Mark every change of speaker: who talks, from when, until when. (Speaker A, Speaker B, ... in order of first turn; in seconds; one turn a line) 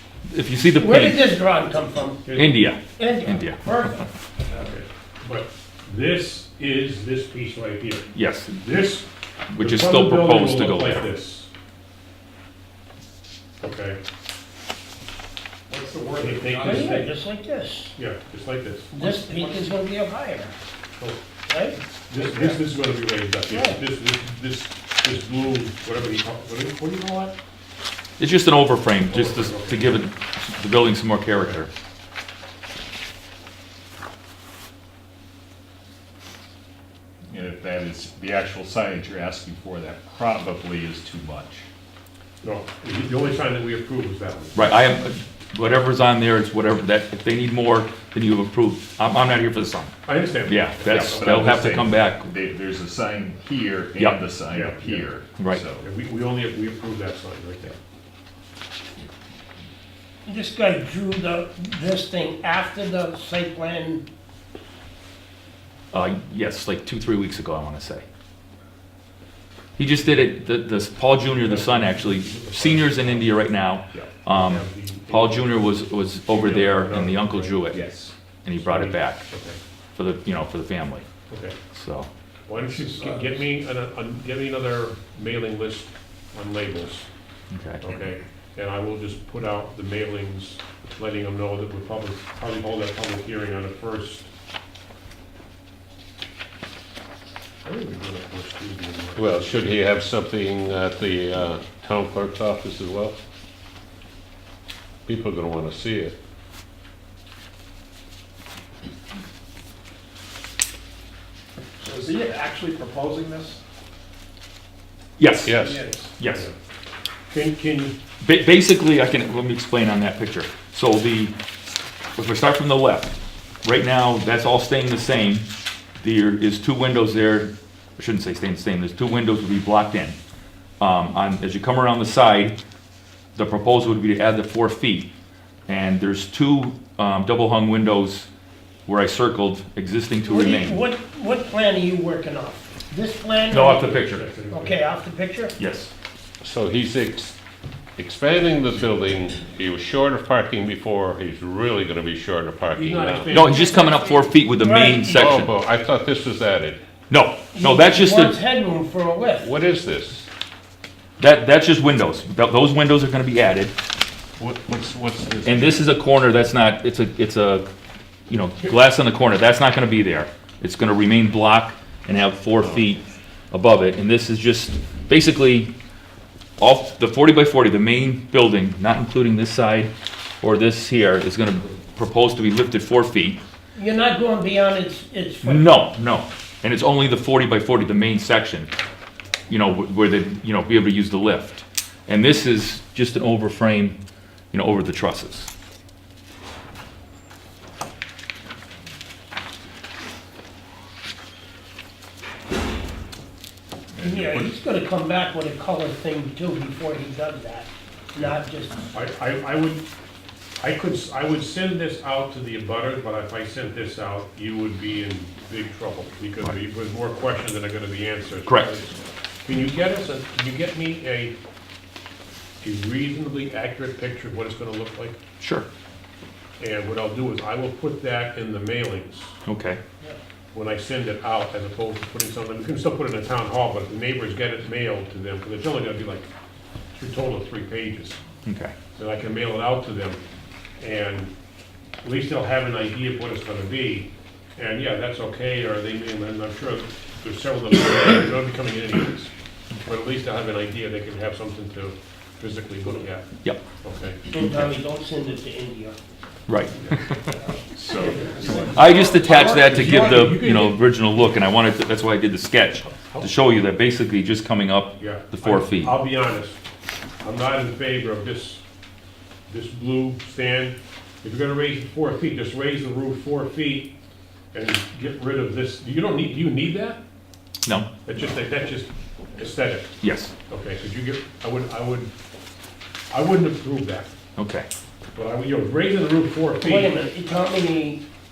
Speaker A: 0.3-1.2
Speaker B: 0.7-2.3
Speaker C: 2.2-2.7
Speaker A: 2.3-4.0
Speaker B: 2.9-4.1
Speaker C: 4.5-11.5
Speaker A: 8.1-8.6
Speaker A: 9.5-11.0
Speaker C: 13.6-14.0
Speaker D: 15.7-16.9
Speaker C: 16.2-17.1
Speaker B: 16.6-17.9
Speaker C: 17.9-18.9
Speaker B: 18.9-20.5
Speaker D: 19.0-19.8
Speaker B: 21.4-22.6
Speaker C: 22.1-27.3
Speaker B: 23.5-23.8
Speaker A: 28.2-31.7
Speaker C: 29.1-29.9
Speaker E: 37.3-41.6
Speaker C: 42.4-44.7
Speaker A: 44.5-49.9
Speaker C: 50.0-51.7
Speaker A: 50.4-52.2
Speaker E: 50.8-55.9
Speaker A: 54.0-54.2
Speaker C: 54.5-55.0
Speaker A: 55.4-55.6
Speaker C: 55.8-57.8
Speaker B: 60.2-64.1
Speaker A: 65.9-68.0
Speaker A: 69.8-77.8
Speaker C: 71.3-73.4
Speaker C: 74.2-77.5
Speaker E: 77.7-78.1
Speaker A: 78.4-79.3
Speaker C: 78.6-79.6
Speaker A: 80.0-81.0
Speaker C: 81.3-81.5
Speaker A: 81.7-82.1
Speaker C: 82.5-87.1
Speaker A: 87.5-88.1
Speaker C: 87.8-94.3
Speaker C: 97.6-99.4
Speaker F: 99.2-103.2
Speaker F: 105.0-106.2
Speaker D: 111.8-113.6
Speaker A: 115.2-115.6
Speaker F: 115.4-115.8
Speaker D: 115.6-116.0
Speaker A: 116.2-116.5
Speaker C: 116.2-116.5
Speaker C: 117.3-118.0
Speaker A: 118.2-121.3
Speaker A: 122.2-125.5
Speaker A: 126.0-130.2
Speaker A: 130.8-132.6
Speaker A: 133.3-135.1
Speaker A: 135.7-138.3
Speaker A: 138.9-140.8
Speaker B: 140.2-145.5
Speaker A: 143.5-144.2
Speaker C: 143.8-144.8
Speaker A: 145.6-145.9
Speaker F: 146.4-147.3
Speaker F: 148.0-153.4
Speaker C: 152.7-153.6
Speaker A: 153.3-155.5
Speaker B: 153.4-155.4
Speaker F: 155.1-156.8
Speaker A: 157.1-158.4
Speaker B: 157.5-159.5
Speaker F: 159.4-160.2
Speaker A: 161.2-163.7
Speaker F: 164.4-165.8
Speaker A: 165.4-167.7
Speaker A: 168.3-175.7
Speaker A: 176.6-183.4
Speaker B: 183.7-185.8
Speaker A: 185.4-188.7
Speaker A: 189.5-194.0
Speaker A: 194.5-195.5
Speaker E: 203.9-204.5
Speaker B: 204.0-208.9
Speaker C: 208.9-209.8
Speaker C: 210.6-221.3
Speaker A: 218.4-218.8
Speaker C: 222.6-225.2
Speaker A: 225.4-225.7
Speaker C: 226.6-229.3
Speaker A: 229.4-229.8
Speaker C: 230.5-236.3
Speaker C: 236.9-238.2
Speaker A: 238.4-238.7
Speaker C: 238.9-240.2
Speaker C: 240.8-241.3
Speaker C: 242.0-249.3
Speaker C: 249.8-253.3
Speaker C: 253.8-254.2
Speaker B: 254.3-256.0
Speaker A: 256.5-257.2
Speaker E: 257.7-259.1
Speaker B: 257.9-259.3
Speaker A: 258.7-265.9
Speaker C: 259.2-260.8
Speaker C: 262.9-263.3
Speaker C: 265.0-266.6
Speaker C: 267.2-268.6
Speaker C: 269.5-273.9
Speaker C: 274.5-277.0
Speaker C: 278.0-279.9
Speaker A: 280.0-280.3
Speaker C: 280.5-282.1
Speaker C: 283.1-284.1
Speaker A: 284.4-284.7
Speaker C: 285.1-286.9
Speaker B: 286.6-288.0